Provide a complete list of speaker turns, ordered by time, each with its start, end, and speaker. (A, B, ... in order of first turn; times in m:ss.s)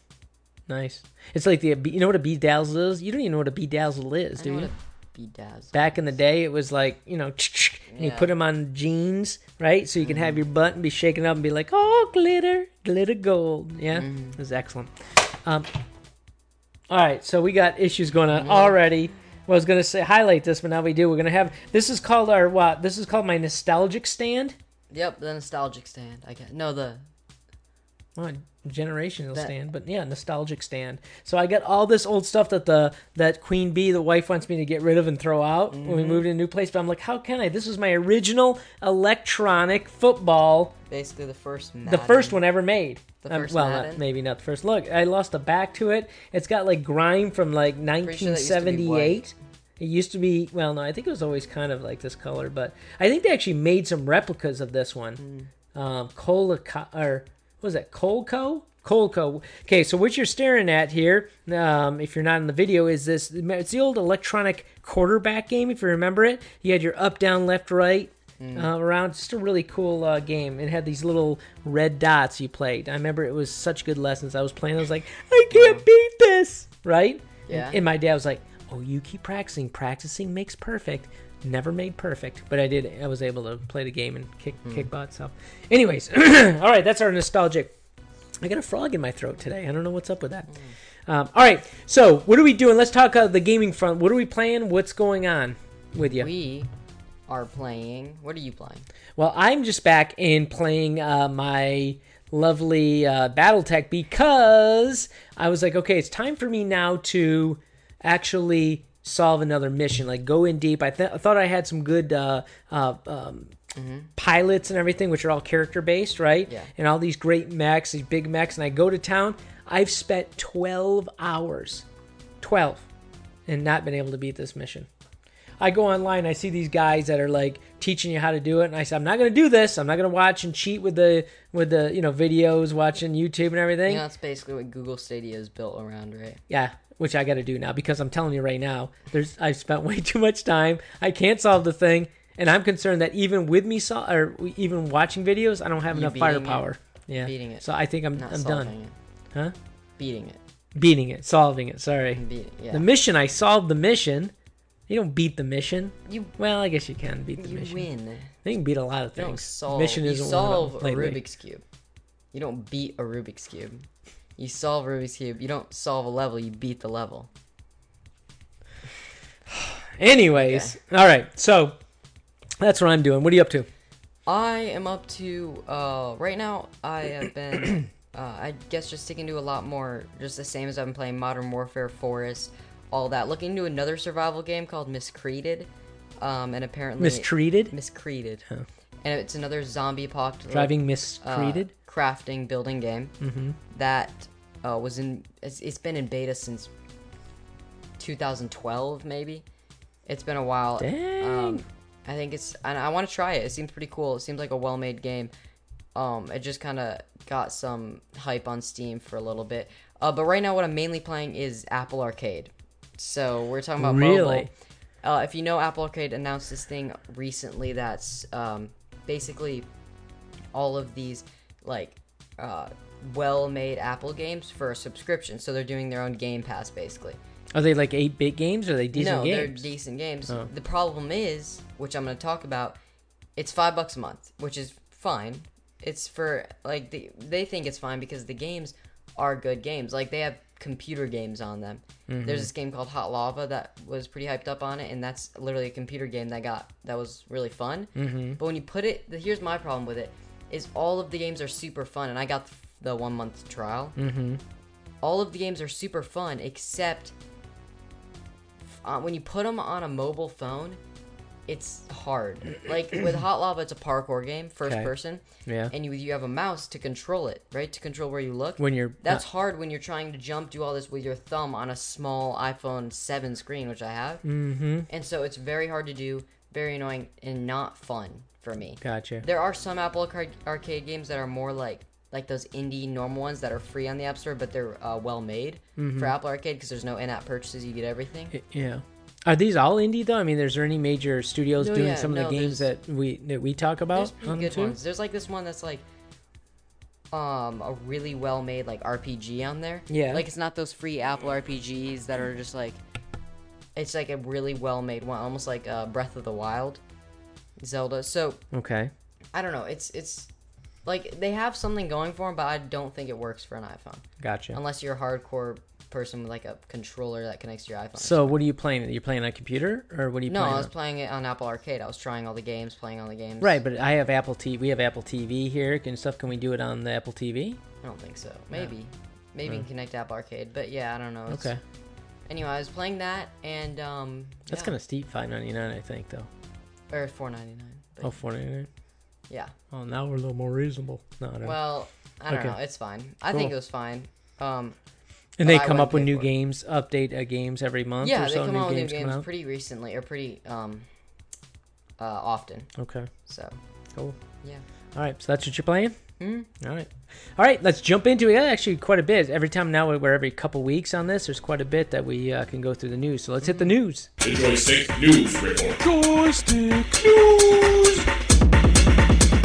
0:00.7-0:04.7 A
0:04.4-0:06.0 B
0:05.7-0:14.9 A
0:07.9-0:08.3 B
0:10.0-0:10.4 B
0:13.9-0:14.4 B
0:15.4-0:15.7 A
0:16.9-0:24.6 A
0:18.3-0:18.8 B
0:24.9-0:27.0 B
0:28.2-0:40.8 A
0:35.7-0:36.2 B
0:40.9-0:42.4 B
0:41.9-0:55.2 A
0:43.2-0:44.0 B
0:48.0-0:49.3 B
0:55.2-0:55.5 B
0:55.7-1:27.7 A
1:08.4-1:08.7 B
1:15.5-1:15.8 B
1:17.5-1:17.8 B
1:24.6-1:24.9 B
1:28.4-1:36.3 A
1:36.0-1:36.7 B
1:37.3-1:38.9 B
1:39.2-1:53.5 A
1:53.7-1:54.1 B
1:54.2-2:01.8 A
2:02.4-2:02.9 A
2:03.5-2:04.9 A
2:05.6-2:14.0 A
2:13.9-2:16.4 B
2:16.5-2:28.7 A
2:25.9-2:26.6 B
2:27.2-2:28.9 B
2:30.0-2:30.4 B
2:30.8-2:34.3 A
2:32.1-2:32.9 B
2:34.9-2:37.9 A
2:36.1-2:36.3 B
2:37.4-2:38.3 B
2:38.4-2:41.2 A
2:39.2-2:41.6 B
2:42.3-2:43.9 B
2:44.4-2:47.3 B
2:49.5-2:51.8 A
2:50.3-2:50.8 B
2:52.6-2:53.7 A
2:54.3-3:08.4 B
3:07.0-3:07.7 A
3:09.0-3:13.1 B
3:10.5-3:11.7 A
3:13.2-3:13.6 A
3:13.7-3:16.7 B
3:18.0-3:19.4 B
3:20.1-3:25.3 B
3:20.8-3:21.6 A
3:26.0-3:34.5 B
3:33.8-3:34.5 A
3:35.0-3:39.7 B
3:40.5-3:47.2 B
3:47.5-3:49.7 A
3:48.9-3:52.8 B
3:53.4-4:14.0 B
4:02.1-4:02.5 A
4:08.0-4:08.4 A
4:14.0-4:14.4 A
4:15.0-4:17.2 B
4:18.8-4:20.8 B
4:21.5-4:34.2 B
4:24.6-4:24.9 A
4:25.4-4:25.7 A
4:28.6-4:29.2 A
4:34.2-4:34.9 A
4:34.9-4:48.4 B
4:38.8-4:39.2 A
4:45.8-4:46.1 A
4:48.3-4:54.8 A
4:51.6-4:52.7 B
4:53.9-4:55.8 B
4:57.1-5:02.8 B
4:59.9-5:00.2 A
5:03.8-5:06.8 B
5:07.6-5:08.4 B
5:08.5-5:08.9 A
5:09.3-5:10.3 B
5:10.8-5:18.4 B
5:14.2-5:14.6 A
5:18.0-5:20.7 A
5:20.3-5:23.6 B
5:23.4-5:27.6 A
5:27.8-5:31.5 B
5:31.3-5:31.6 A
5:32.3-5:34.7 B
5:34.5-5:36.3 A
5:36.9-5:38.2 B
5:38.0-5:38.7 A
5:39.3-5:39.5 B
5:39.7-5:41.6 A
5:41.4-5:44.8 B
5:42.3-5:42.6 A
5:45.4-5:49.2 A
5:45.4-5:46.3 B
5:48.0-5:50.9 B
5:52.0-5:52.7 B
5:52.8-5:53.1 A
5:53.3-5:53.6 B
5:54.9-5:56.0 A
5:56.2-5:56.5 B
5:56.6-6:04.1 A
6:03.4-6:03.7 B
6:04.2-6:08.1 C